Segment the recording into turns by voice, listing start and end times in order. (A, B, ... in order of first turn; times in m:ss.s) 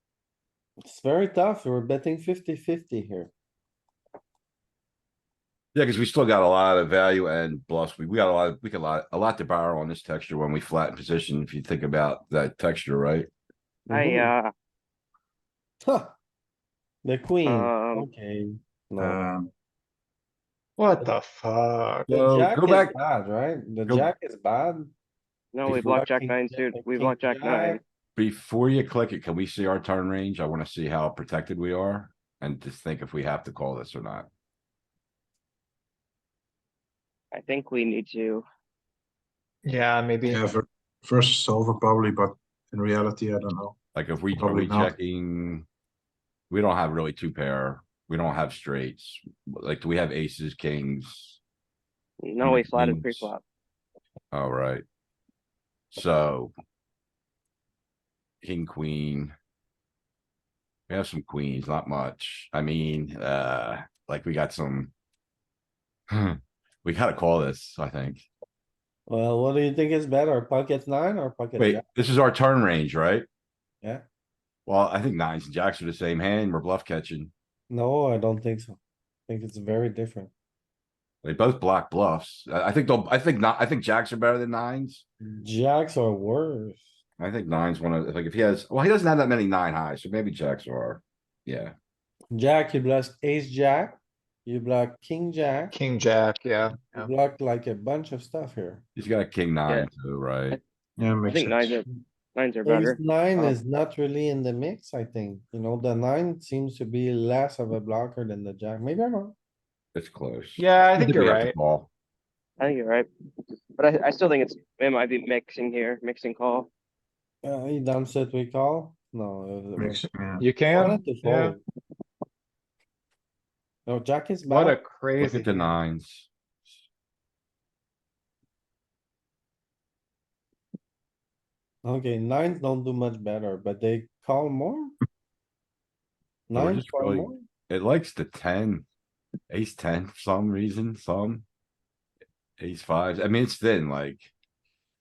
0:00.8-0:03.3 A
0:05.7-0:13.3 B
0:13.9-0:14.5 C
0:13.9-0:14.3 A
0:15.8-0:16.1 A
0:17.0-0:19.2 A
0:17.4-0:18.1 C
0:19.0-0:19.5 D
0:20.8-0:22.1 E
0:22.1-0:24.9 A
0:22.1-0:23.0 B
0:25.5-0:27.8 C
0:25.6-0:27.8 A
0:28.2-0:34.3 B
0:37.3-0:38.4 C
0:39.6-0:40.5 E
0:40.3-0:43.8 D
0:43.9-0:45.6 B
0:44.3-0:45.0 D
0:46.5-0:51.4 B
0:52.2-0:53.4 C
0:52.4-0:53.3 B
0:54.3-0:54.8 B
0:55.9-0:56.5 B
0:58.4-0:59.3 B
1:00.9-1:04.9 B
1:06.1-1:08.2 B
1:09.1-1:11.8 A
1:11.6-1:13.2 B
1:14.6-1:17.3 B
1:17.7-1:18.8 A
1:19.3-1:20.3 A
1:21.2-1:25.0 B
1:25.2-1:26.9 A
1:27.2-1:31.7 B
1:32.3-1:35.7 A
1:35.7-1:37.1 E
1:36.9-1:38.8 A
1:39.0-1:40.6 B
1:41.0-1:41.8 D
1:41.3-1:43.5 C
1:42.6-1:49.3 A
1:49.9-1:51.9 B
1:50.6-1:51.5 E
1:52.6-1:53.1 C
1:53.8-1:56.7 C
1:57.4-2:00.0 A
1:59.8-2:00.4 D
2:00.4-2:01.6 E
2:00.6-2:01.6 A
2:03.8-2:04.8 A
2:04.5-2:05.7 E
2:05.2-2:06.3 B
2:11.8-2:14.9 A
2:16.5-2:17.4 A
2:16.5-2:18.8 B
2:19.5-2:21.4 B
2:22.6-2:24.3 B